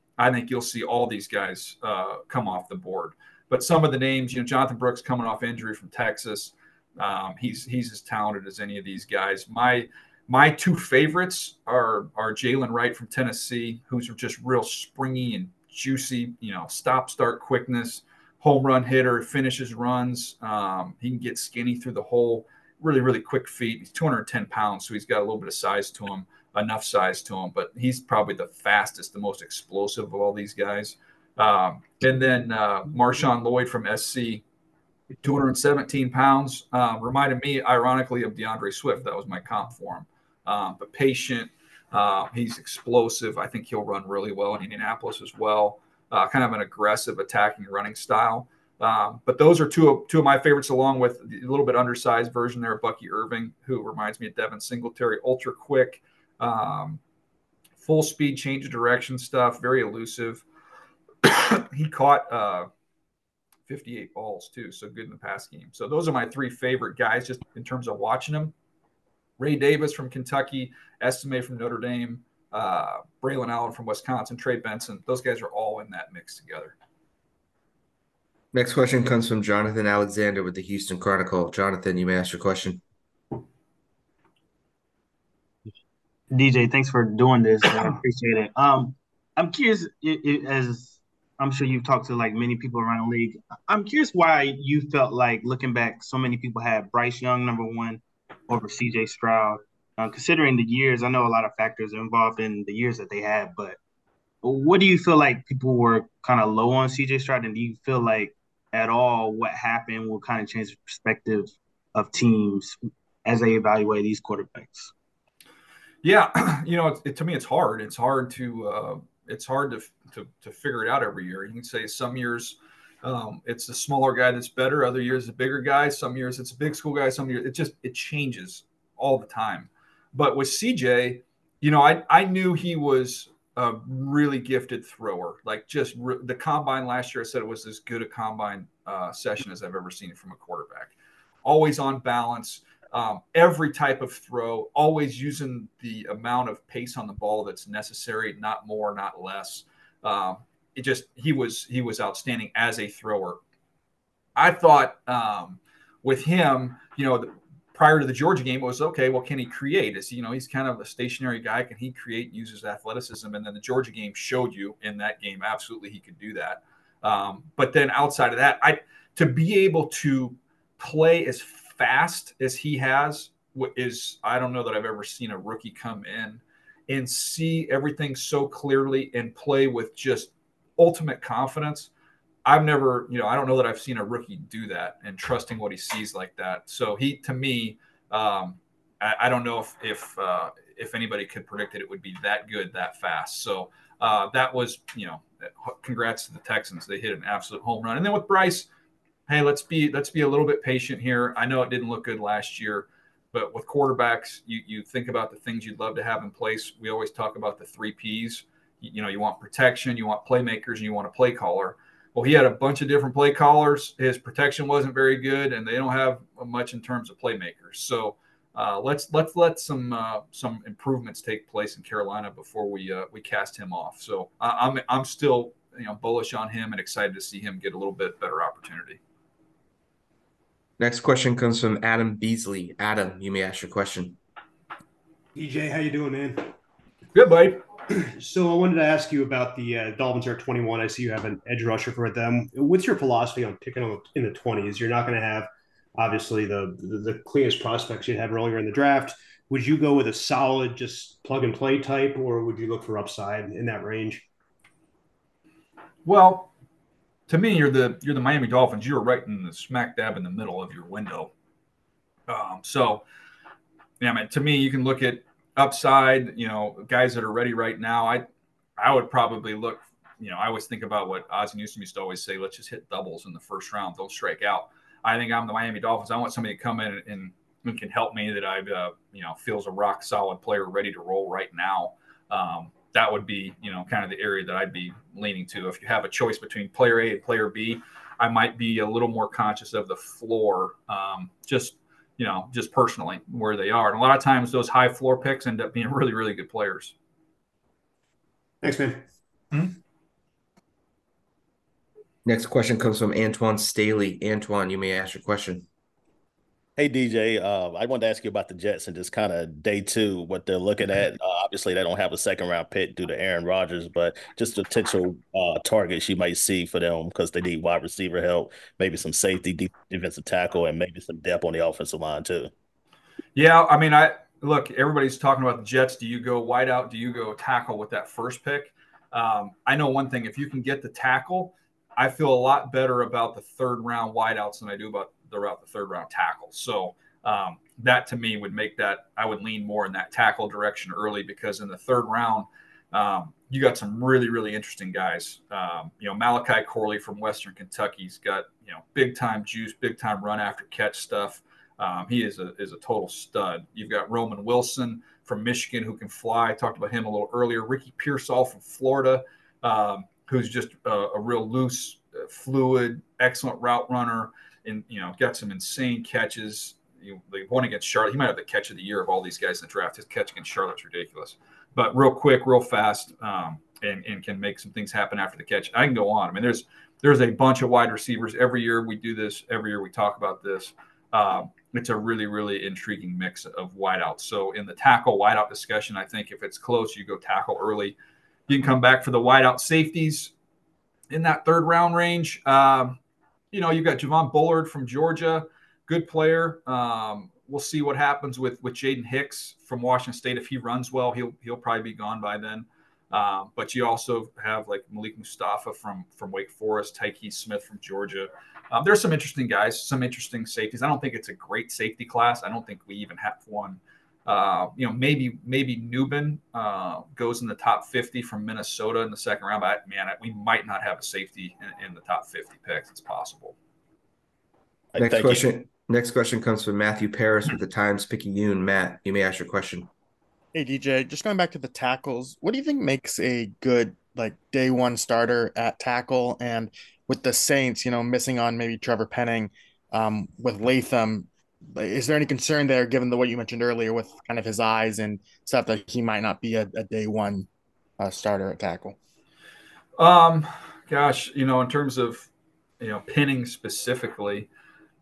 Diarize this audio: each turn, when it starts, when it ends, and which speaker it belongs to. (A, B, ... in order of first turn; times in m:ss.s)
0:00.2-0:34.4 A
0:35.2-0:57.0 A
0:57.8-1:00.4 A
1:01.2-1:02.7 A
1:03.7-1:08.5 A
1:09.4-1:16.7 A
1:18.5-1:22.8 B
1:26.4-1:30.9 C
1:31.4-1:33.3 C
1:33.9-1:38.0 C
1:38.5-1:43.7 C
1:44.5-1:51.5 C
1:52.3-1:52.7 C
1:53.3-1:54.5 C
1:56.0-2:33.4 A
2:34.4-3:01.9 A
3:02.4-3:18.7 A
3:19.3-3:49.0 A
3:50.8-3:54.2 B
3:55.4-3:56.5 D
3:57.1-3:57.6 A
3:58.0-4:14.2 D
4:16.0-4:16.5 A
4:17.3-4:21.3 A
4:22.3-4:23.0 A
4:24.0-4:28.3 A
4:28.8-4:57.0 A
4:58.6-4:59.0 D
5:02.2-5:05.7 B
5:06.8-5:22.5 E
5:23.4-6:28.0 A
6:28.5-6:30.3 A
6:31.1-6:33.0 A
6:33.5-7:03.6 A
7:05.0-7:05.4 E
7:05.0-7:09.9 B
7:10.5-7:27.5 F
7:28.0-7:29.0 F
7:30.0-7:32.3 A
7:32.8-7:34.5 A